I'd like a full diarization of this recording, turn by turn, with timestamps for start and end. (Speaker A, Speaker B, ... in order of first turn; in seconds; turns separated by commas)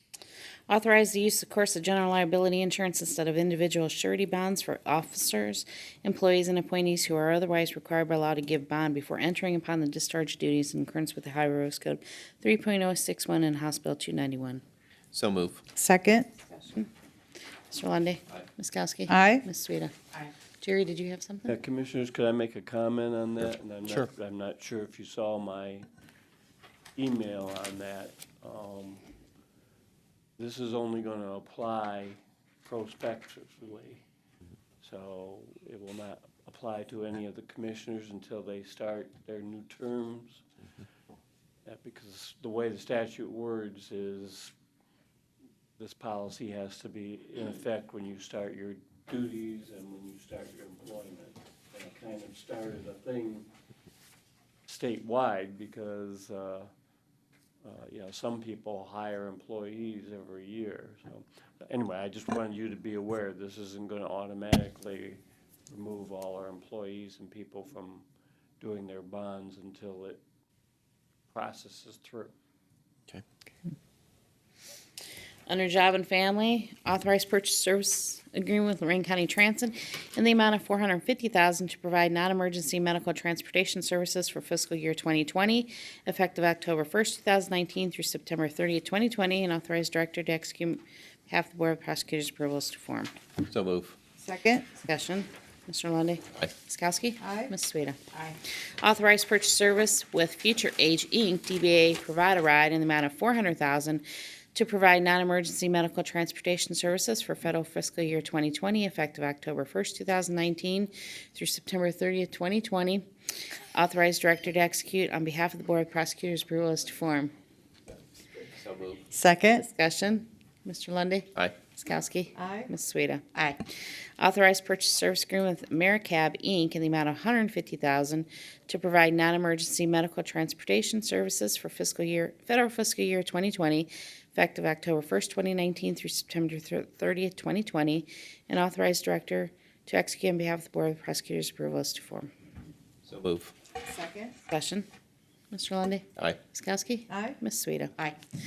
Speaker A: 0.7-14.6, Speaker B: 15.1-15.6, Speaker C: 15.8-16.3, Speaker A: 16.5-16.9, Speaker A: 17.7-19.9, Speaker C: 19.1-19.5, Speaker A: 20.6-21.5, Speaker D: 21.5-25.9, Speaker D: 27.0-29.0, Speaker D: 30.4-34.0, Speaker D: 34.8-40.4, Speaker D: 41.6-44.5, Speaker D: 45.8-53.5, Speaker D: 54.7-56.7, Speaker D: 57.6-68.0, Speaker D: 68.6-70.2, Speaker D: 71.3-72.3, Speaker A: 75.5-93.1, Speaker B: 93.5-94.0, Speaker C: 94.2-94.7, Speaker A: 94.8-98.0, Speaker C: 97.2-97.5, Speaker A: 98.8-104.0, Speaker A: 104.5-113.0, Speaker A: 113.7-117.3, Speaker B: 118.4-119.1, Speaker C: 119.1-119.7, Speaker A: 119.6-123.3, Speaker C: 122.4-122.7, Speaker A: 124.2-142.3, Speaker B: 143.1-143.5, Speaker C: 143.9-144.3, Speaker A: 144.5-144.9, Speaker A: 145.5-147.9, Speaker C: 147.1-147.4